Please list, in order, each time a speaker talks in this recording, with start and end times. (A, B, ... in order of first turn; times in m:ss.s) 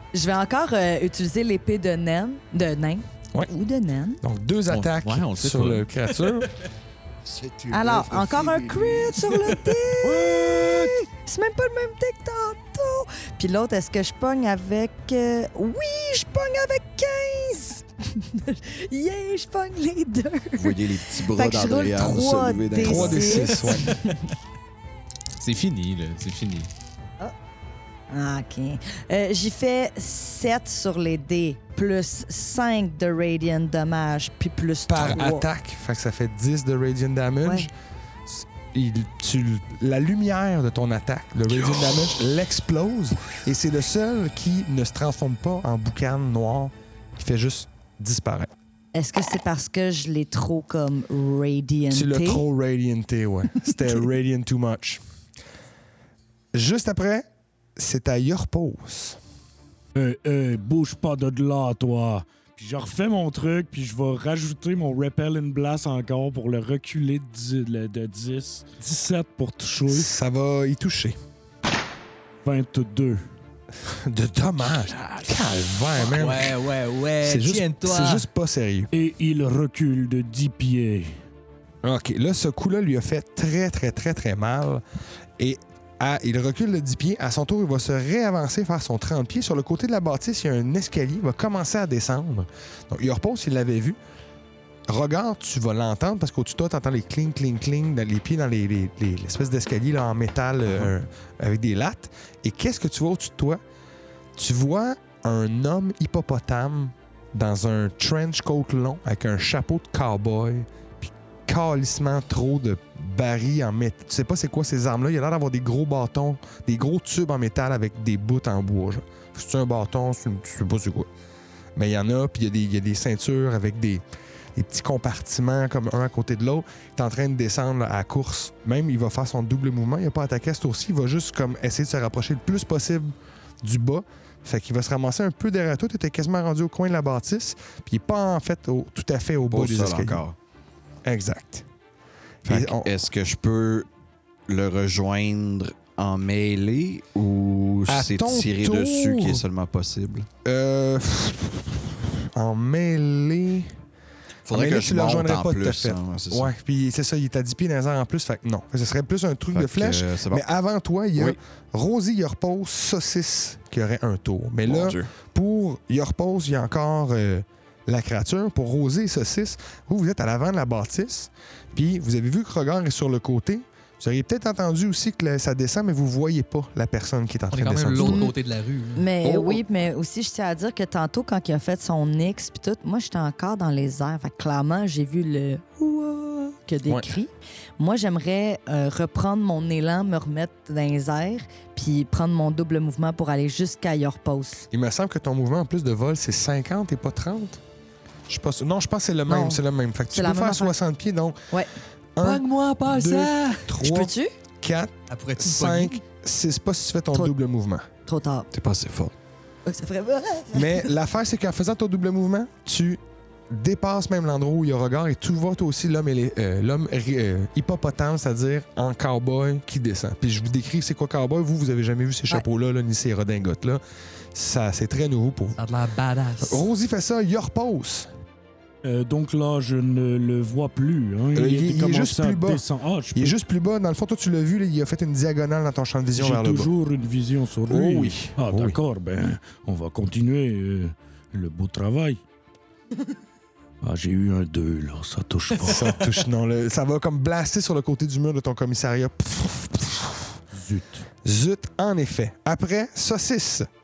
0:00.1-0:04.2 A
0:04.2-0:06.6 B
0:04.7-0:05.9 C
0:07.2-0:09.6 D
0:07.7-0:24.3 A
0:10.1-0:10.9 D
0:20.6-0:23.6 D
0:22.8-0:24.0 B
0:25.4-0:26.7 C
0:28.1-0:35.4 A
0:34.9-0:37.7 B
0:37.4-0:37.7 A
0:38.3-0:48.5 B
0:49.0-0:52.4 A
0:51.9-0:55.0 B
0:56.5-0:59.2 B
1:00.0-1:10.1 E
1:09.9-1:11.2 B
1:12.4-1:13.2 E
1:13.8-1:16.6 B
1:16.1-1:16.9 C
1:16.5-1:18.2 F
1:17.2-1:18.9 B
1:18.9-1:21.2 E
1:21.8-1:24.8 B
1:25.4-1:34.0 B
1:34.9-1:43.6 B
1:44.4-2:01.1 B
2:01.8-2:04.0 B
2:04.6-2:20.2 B
2:19.5-2:20.4 D
2:21.0-2:21.7 B
2:22.4-2:22.9 B
2:22.5-2:23.9 D
2:24.5-2:30.3 D
2:27.9-2:29.4 B
2:30.4-2:33.8 B
2:34.5-2:36.5 D
2:34.5-2:58.3 B
2:39.5-2:40.4 D
2:44.6-2:45.1 D
2:57.5-2:59.0 F
2:58.0-2:58.3 A
2:59.0-3:14.7 A
2:59.2-2:59.6 B
3:06.9-3:07.1 B
3:14.7-3:17.6 B
3:18.3-3:21.4 B
3:19.3-3:20.8 A
3:22.2-3:27.9 B
3:22.2-3:23.7 F
3:23.8-3:24.3 A
3:25.1-3:26.0 F
3:28.1-3:28.5 A
3:28.5-3:29.1 D
3:29.7-3:30.9 A
3:30.5-3:43.8 B
3:44.3-3:45.6 B
3:45.6-3:46.6 F
3:46.4-3:48.1 B
3:48.8-3:53.4 E
3:51.4-3:52.6 B
3:53.1-3:56.7 B
3:56.1-4:02.2 E
3:57.7-3:58.8 B
4:03.8-4:06.1 E
4:05.6-4:10.4 B
4:10.5-4:11.0 E
4:11.2-4:13.7 B